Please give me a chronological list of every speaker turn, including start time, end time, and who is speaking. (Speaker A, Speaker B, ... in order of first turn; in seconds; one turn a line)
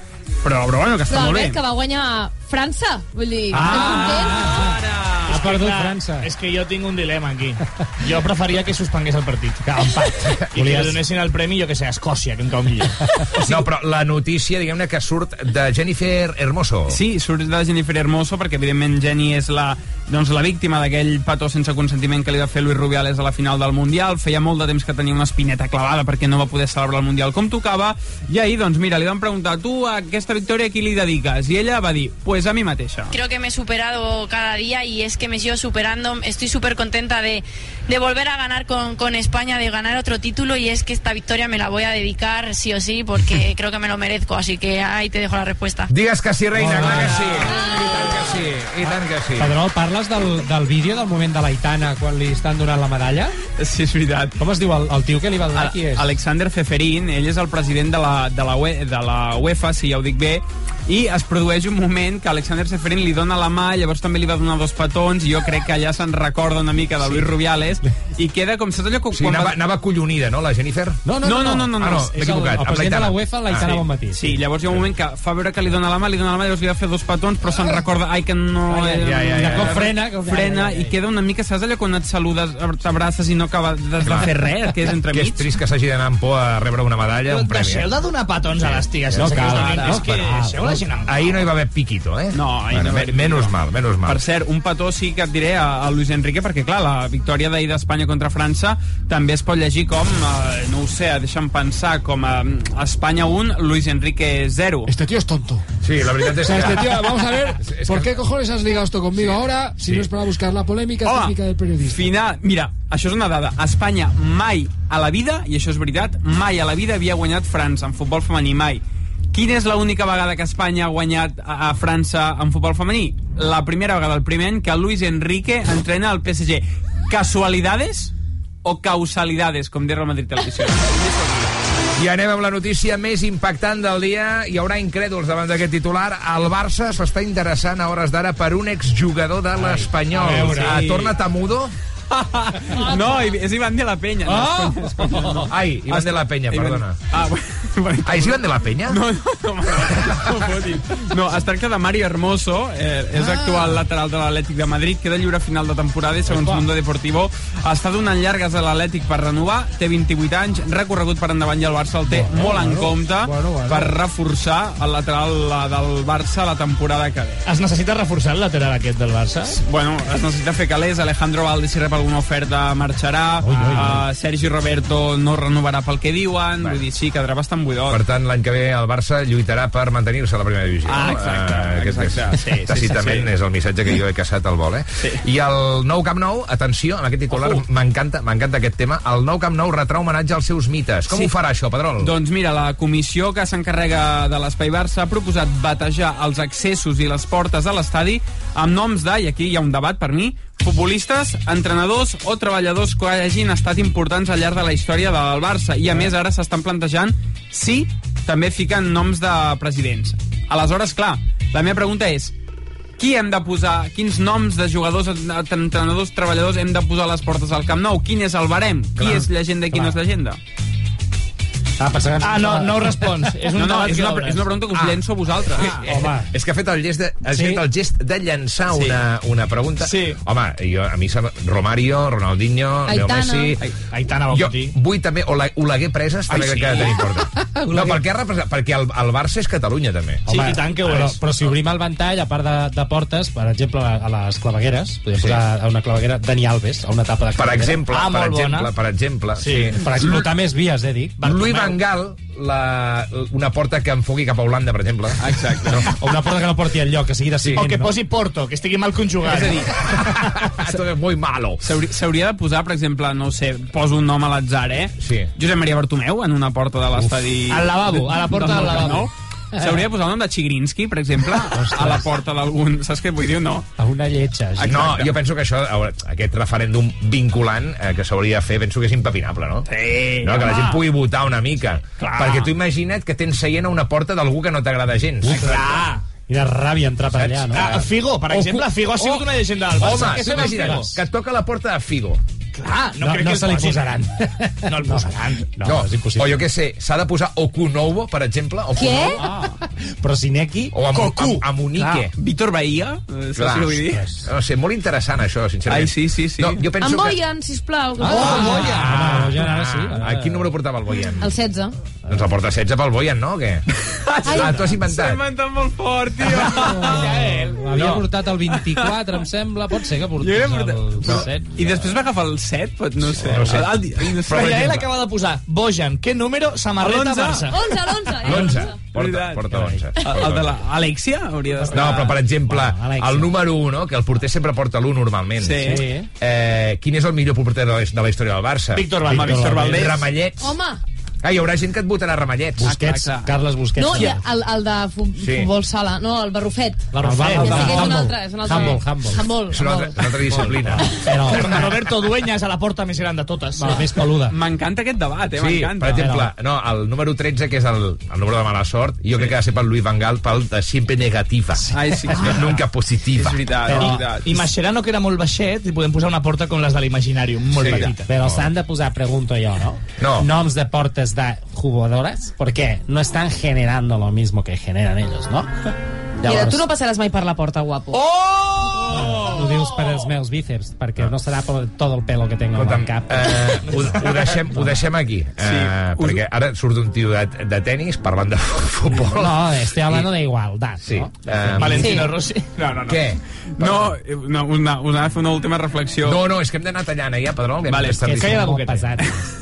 Speaker A: 0.4-1.6
Speaker B: 1.1-4.5
Speaker C: 3.5-6.3
Speaker D: 3.5-4.7
Speaker A: 3.8-5.4
Speaker D: 5.3-9.8
Speaker C: 9.6-11.0
Speaker D: 10.5-13.6
Speaker E: 13.4-17.0
Speaker A: 16.9-33.2
Speaker F: 33.4-45.8
Speaker E: 45.9-49.6
Speaker C: 46.5-47.5
Speaker A: 46.9-47.4
Speaker C: 48.8-53.4
Speaker A: 53.6-54.4
Speaker C: 54.4-56.1
Speaker A: 55.5-69.6
Speaker E: 69.1-71.1
Speaker C: 71.0-74.4
Speaker A: 71.2-72.3
Speaker E: 71.8-73.7
Speaker A: 73.5-85.5
Speaker C: 78.7-81.0
Speaker E: 79.0-79.9
Speaker E: 84.0-84.3
Speaker E: 85.1-87.9
Speaker D: 87.3-91.3
Speaker E: 88.6-90.2
Speaker C: 89.1-90.9
Speaker A: 89.5-90.0
Speaker E: 91.1-94.2
Speaker A: 92.3-93.5
Speaker A: 94.0-104.9
Speaker G: 104.9-105.6
Speaker E: 105.8-108.1
Speaker G: 106.4-112.1
Speaker E: 109.8-110.1
Speaker A: 111.0-128.1
Speaker A: 128.6-131.5
Speaker E: 132.0-141.7
Speaker C: 139.6-140.9
Speaker A: 140.4-141.2
Speaker A: 142.1-167.4
Speaker C: 144.2-145.5
Speaker E: 145.5-147.0
Speaker E: 148.1-149.0
Speaker C: 153.2-153.8
Speaker C: 156.3-156.7
Speaker G: 162.1-163.9
Speaker C: 162.5-162.9
Speaker D: 167.4-169.6
Speaker A: 169.5-178.0
Speaker C: 173.4-174.1
Speaker E: 177.9-192.1
Speaker A: 180.9-183.3
Speaker A: 187.3-187.6
Speaker A: 192.0-212.3
Speaker A: 213.0-220.4
Speaker E: 218.9-219.3
Speaker C: 219.7-220.0
Speaker C: 221.8-223.6
Speaker D: 222.2-224.5
Speaker A: 223.6-225.8
Speaker E: 224.7-225.0
Speaker D: 225.6-226.2
Speaker C: 225.9-226.3
Speaker E: 226.3-233.7
Speaker C: 227.3-227.6
Speaker A: 228.7-229.0
Speaker D: 229.8-230.2
Speaker B: 232.9-233.6
Speaker D: 233.9-234.7
Speaker E: 234.3-240.2
Speaker D: 236.3-237.0
Speaker A: 236.5-236.8
Speaker C: 237.4-238.0
Speaker D: 240.3-241.2
Speaker C: 240.3-247.8
Speaker E: 245.2-245.4
Speaker E: 247.4-250.3
Speaker D: 247.9-248.7
Speaker D: 249.4-249.8
Speaker C: 249.4-251.2
Speaker D: 251.2-251.8
Speaker E: 251.2-255.9
Speaker A: 255.2-255.9
Speaker C: 256.0-258.0
Speaker E: 257.4-257.7
Speaker D: 257.6-260.7
Speaker A: 259.3-259.8
Speaker E: 260.0-261.6
Speaker A: 261.6-273.7
Speaker E: 265.0-265.3
Speaker D: 267.5-269.1
Speaker C: 271.5-272.1
Speaker C: 273.8-275.1
Speaker A: 274.6-275.1
Speaker E: 274.6-279.7
Speaker A: 279.7-280.8
Speaker D: 280.1-280.6
Speaker E: 280.2-285.6
Speaker D: 282.0-282.5
Speaker C: 285.2-287.7
Speaker D: 285.3-286.1
Speaker E: 287.1-289.1
Speaker D: 287.5-290.9
Speaker C: 289.8-291.0
Speaker E: 289.8-292.2
Speaker D: 292.5-294.0
Speaker C: 293.0-296.4
Speaker D: 294.7-295.5
Speaker E: 295.6-299.3
Speaker B: 298.8-299.2
Speaker C: 299.2-301.0
Speaker E: 300.7-302.1
Speaker D: 301.0-301.4
Speaker A: 301.8-304.1
Speaker E: 303.4-307.2
Speaker C: 303.9-304.3
Speaker A: 305.7-306.6
Speaker B: 306.8-308.8
Speaker C: 308.0-310.6
Speaker D: 308.0-309.2
Speaker E: 308.7-311.3
Speaker B: 311.2-311.8
Speaker E: 312.1-313.7
Speaker A: 313.9-317.2
Speaker E: 314.2-315.2
Speaker B: 314.3-314.5
Speaker C: 316.2-322.0
Speaker D: 316.6-318.1
Speaker E: 317.8-318.0
Speaker A: 318.5-319.0
Speaker A: 320.2-324.9
Speaker E: 321.0-321.3
Speaker E: 323.2-324.8
Speaker D: 324.3-327.6
Speaker A: 326.8-327.5
Speaker B: 327.5-328.8
Speaker E: 328.2-330.6
Speaker A: 328.3-329.5
Speaker C: 329.5-329.9
Speaker A: 330.0-332.2
Speaker C: 331.6-333.3
Speaker E: 331.7-340.6
Speaker A: 335.4-335.9
Speaker C: 335.6-336.1
Speaker D: 338.7-339.9
Speaker C: 339.0-339.9
Speaker A: 339.1-340.0
Speaker B: 340.4-340.8
Speaker E: 341.2-342.7
Speaker C: 342.6-344.2
Speaker A: 342.6-343.3
Speaker B: 343.8-350.1
Speaker E: 345.2-345.5
Speaker C: 346.9-349.4
Speaker D: 347.0-348.1
Speaker E: 348.5-348.8
Speaker E: 349.5-351.0
Speaker C: 350.0-351.9
Speaker D: 351.1-354.1
Speaker C: 353.6-354.4
Speaker A: 354.3-356.1
Speaker E: 355.4-363.6
Speaker C: 355.9-356.3
Speaker A: 361.7-362.6
Speaker C: 362.1-362.4
Speaker D: 362.1-362.4
Speaker A: 363.2-364.5
Speaker C: 363.6-364.1
Speaker D: 363.7-368.1
Speaker E: 367.5-368.5
Speaker C: 367.7-375.5
Speaker E: 370.0-370.3
Speaker C: 376.2-376.6
Speaker B: 376.2-378.0
Speaker D: 377.9-379.6
Speaker C: 378.9-384.8
Speaker E: 382.5-390.1
Speaker A: 385.4-386.2
Speaker C: 388.9-392.2
Speaker E: 390.8-392.1
Speaker D: 391.6-393.1
Speaker E: 392.9-393.9
Speaker A: 393.6-396.2
Speaker E: 396.0-398.5
Speaker A: 397.7-398.0
Speaker C: 398.0-399.2
Speaker D: 398.1-398.9